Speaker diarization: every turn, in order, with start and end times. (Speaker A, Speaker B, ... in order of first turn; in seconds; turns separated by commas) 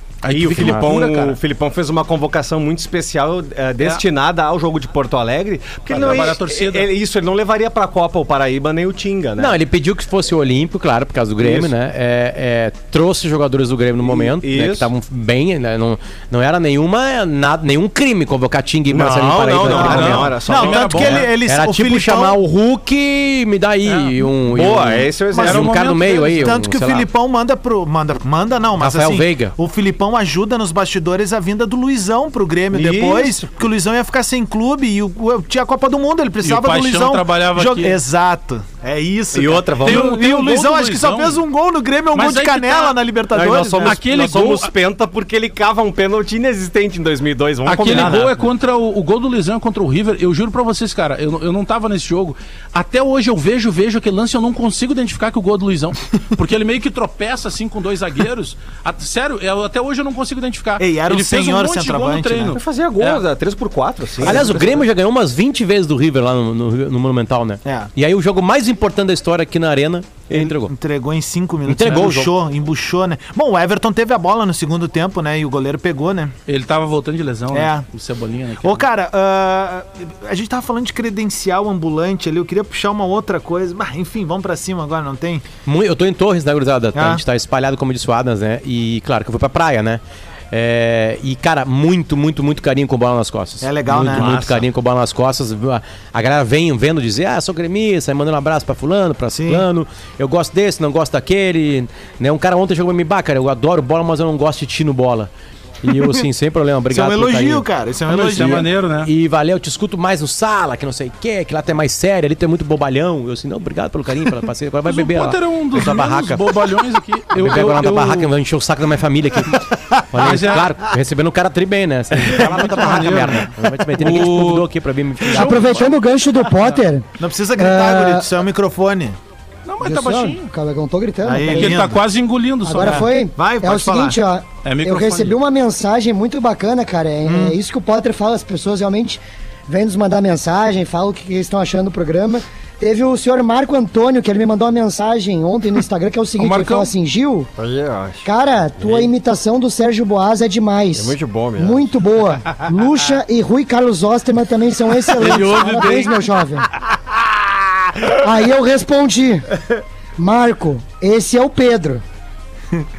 Speaker A: 0.2-1.4, Speaker B: 0.3-9.5, Speaker A: 5.9-6.9, Speaker C: 9.4-20.3, Speaker B: 11.4-11.7, Speaker B: 14.0-14.9, Speaker B: 18.9-21.1, Speaker A: 19.6-21.3, Speaker D: 19.6-22.4, Speaker C: 21.0-27.1, Speaker A: 23.9-24.2, Speaker B: 24.4-25.6, Speaker D: 25.3-44.0, Speaker A: 25.4-26.6, Speaker C: 28.8-29.5, Speaker B: 32.7-33.5, Speaker A: 36.4-38.0, Speaker B: 39.3-40.1, Speaker A: 39.8-41.4, Speaker A: 42.1-43.0, Speaker B: 43.3-48.4, Speaker A: 43.8-44.7, Speaker A: 47.6-63.2, Speaker D: 60.8-62.6, Speaker B: 62.5-64.7, Speaker C: 64.2-70.7, Speaker D: 64.2-64.8, Speaker D: 67.6-67.9, Speaker D: 70.3-76.3, Speaker C: 71.7-72.3, Speaker A: 76.5-78.9, Speaker D: 77.5-77.8, Speaker D: 78.6-85.4, Speaker C: 85.7-105.3, Speaker D: 86.9-87.2, Speaker D: 93.6-94.4, Speaker B: 94.0-94.6, Speaker D: 99.3-99.6, Speaker C: 105.8-107.7, Speaker D: 106.9-108.7, Speaker A: 108.1-109.1, Speaker C: 108.3-116.6, Speaker A: 114.8-118.3, Speaker C: 117.3-125.8, Speaker D: 120.0-120.3, Speaker A: 120.2-120.7, Speaker A: 122.2-124.7, Speaker D: 122.3-123.4, Speaker A: 125.2-126.8, Speaker E: 125.3-128.3, Speaker D: 127.2-129.2, Speaker A: 129.7-130.5, Speaker E: 129.8-131.9, Speaker D: 131.2-132.0, Speaker A: 131.5-133.1, Speaker E: 132.6-147.5, Speaker D: 132.8-134.2, Speaker A: 134.6-135.3, Speaker D: 137.2-137.6, Speaker A: 146.4-146.9, Speaker B: 147.6-148.2, Speaker E: 148.2-156.7, Speaker B: 148.8-149.1, Speaker B: 150.9-151.8, Speaker A: 155.2-156.2, Speaker E: 158.0-159.5, Speaker E: 160.2-162.0